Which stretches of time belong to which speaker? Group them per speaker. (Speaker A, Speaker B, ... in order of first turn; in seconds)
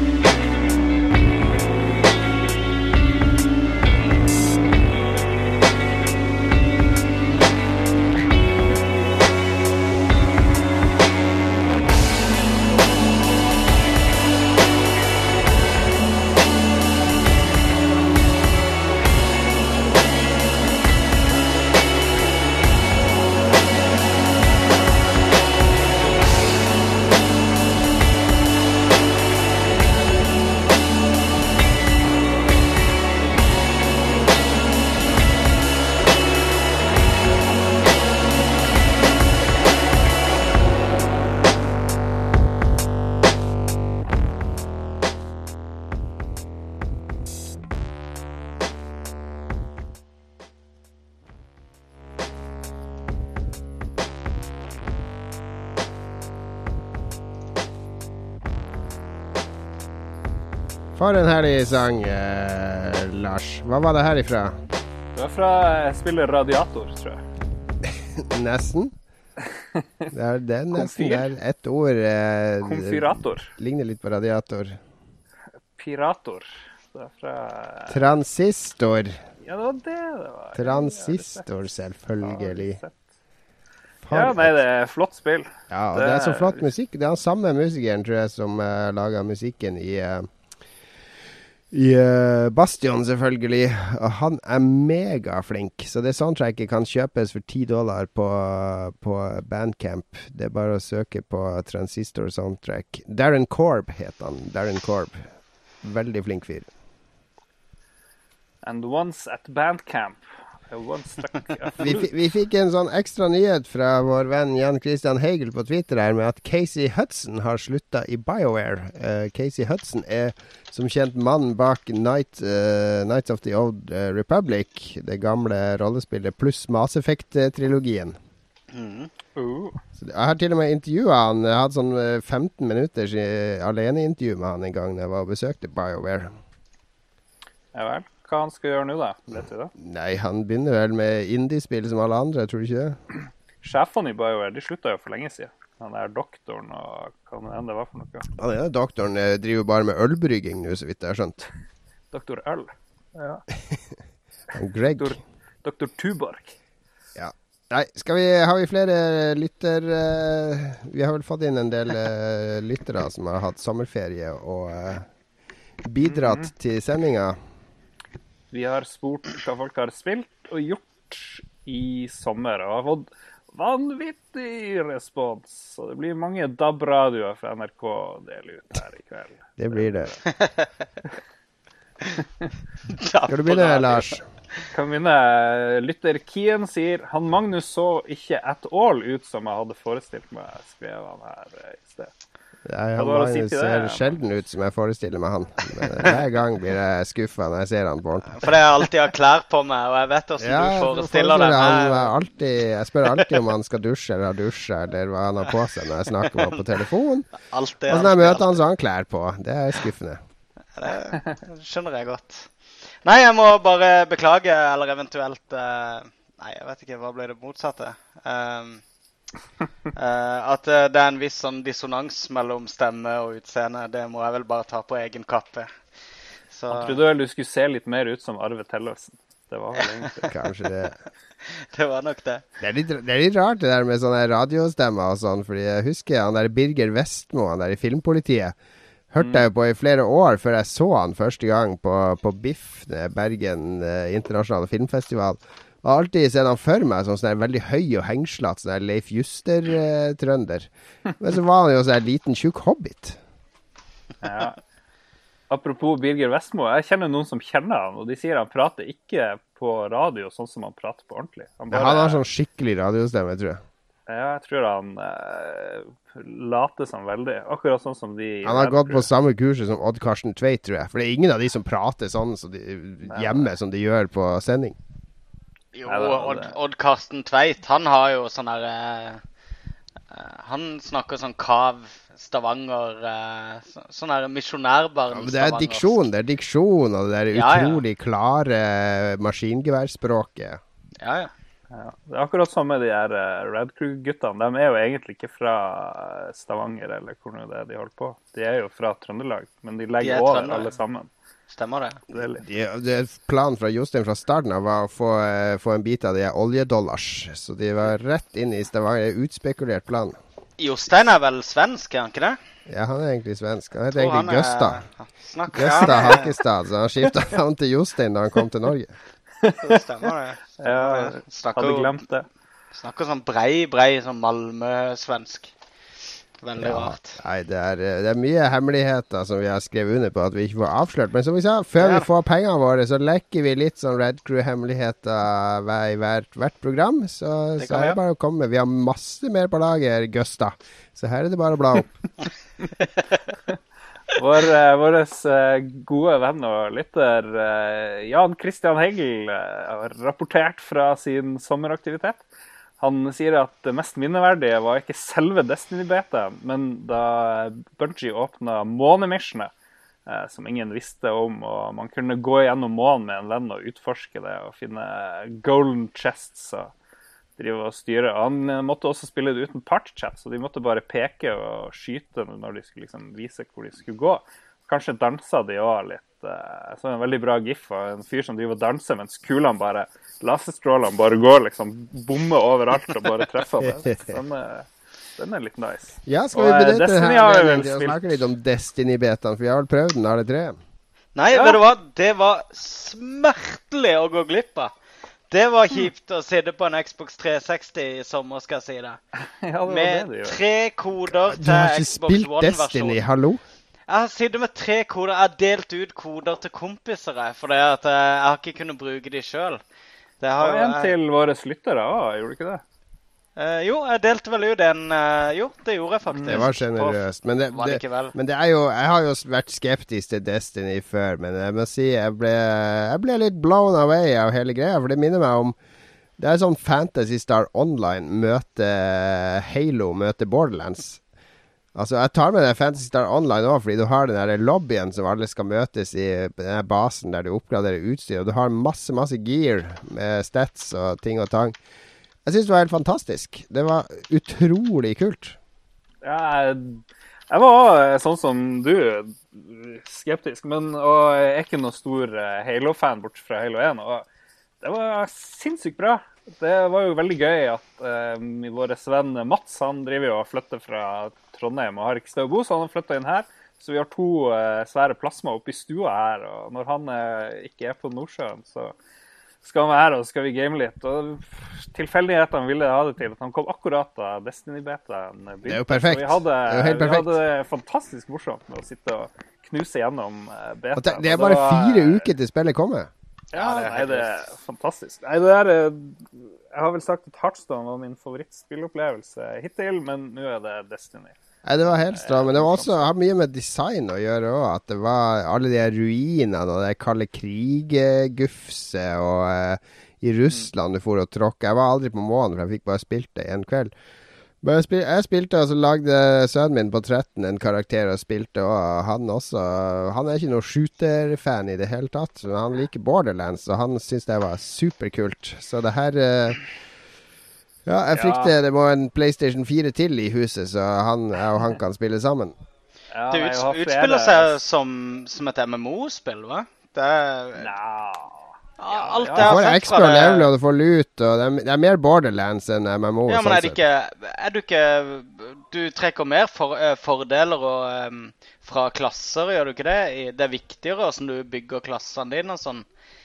Speaker A: 61.0-64.6, 67.9-69.0, 70.1-74.8, 77.9-79.2, 80.5-82.8, 84.1-84.5, 85.7-90.3, 91.7-105.2, 105.8-106.7, 111.8-128.2, 130.0-136.3, 139.8-143.0, 148.4-151.4, 154.5-155.2, 157.2-165.1, 165.8-167.4, 179.6-180.1, 183.3-184.3, 192.7-198.5, 200.4-207.3, 207.9-210.2, 230.3-231.0, 232.6-238.6, 239.1-253.2, 261.7-263.6, 268.4-274.8, 285.1-290.6, 302.1-310.2, 312.7-314.8, 315.5-319.0, 326.6-341.9, 386.1-390.6, 401.2-403.4, 416.3-425.6, 426.2-431.0, 431.8-441.6, 442.3-445.4, 475.5-477.2, 480.8-482.9, 491.4-503.7, 504.4-516.5, 517.7-522.4, 529.2-533.6
Speaker B: 65.2-67.2, 70.7-71.3, 72.6-73.5, 75.8-78.0, 79.4-81.6, 82.2-83.0, 84.1-86.7, 108.6-112.1, 129.4-129.8, 137.7-139.7, 143.6-148.3, 152.1-153.4, 155.0-156.6, 166.0-166.5, 168.5-180.2, 184.7-192.1, 193.0-194.2, 226.7-230.3, 239.2-239.5, 254.2-254.6, 255.5-262.2, 264.1-269.1, 273.1-273.5, 275.9-276.5, 291.7-301.1, 302.1-302.5, 319.4-319.8, 320.6-322.3, 344.1-352.2, 352.8-359.5, 360.1-366.7, 367.4-388.2, 391.3-391.6, 399.4-400.4, 410.4-412.6, 416.1-416.5, 446.0-454.1, 454.6-468.7, 469.4-482.1, 483.3-491.2, 491.9-492.9, 517.9-518.3, 522.9-524.4, 527.4-530.1
Speaker C: 128.7-129.1, 180.3-180.7, 182.9-184.1, 198.3-202.1, 207.4-208.6, 210.8-212.5, 213.0-218.8, 219.9-225.7, 226.5-227.0, 231.4-232.4, 275.8-279.2, 280.1-286.0, 287.3-287.8, 291.0-291.3, 300.0-300.7, 301.5-302.0, 310.6-312.4, 314.0-316.3, 319.6-322.0, 322.8-325.5, 326.4-327.2, 331.8-332.1, 337.6-338.0, 391.1-394.7, 395.3-399.0, 399.7-403.0, 403.9-409.6, 410.2-410.9, 413.4-418.1, 483.3-484.1, 523.1-527.5, 528.6-530.3, 533.1-542.7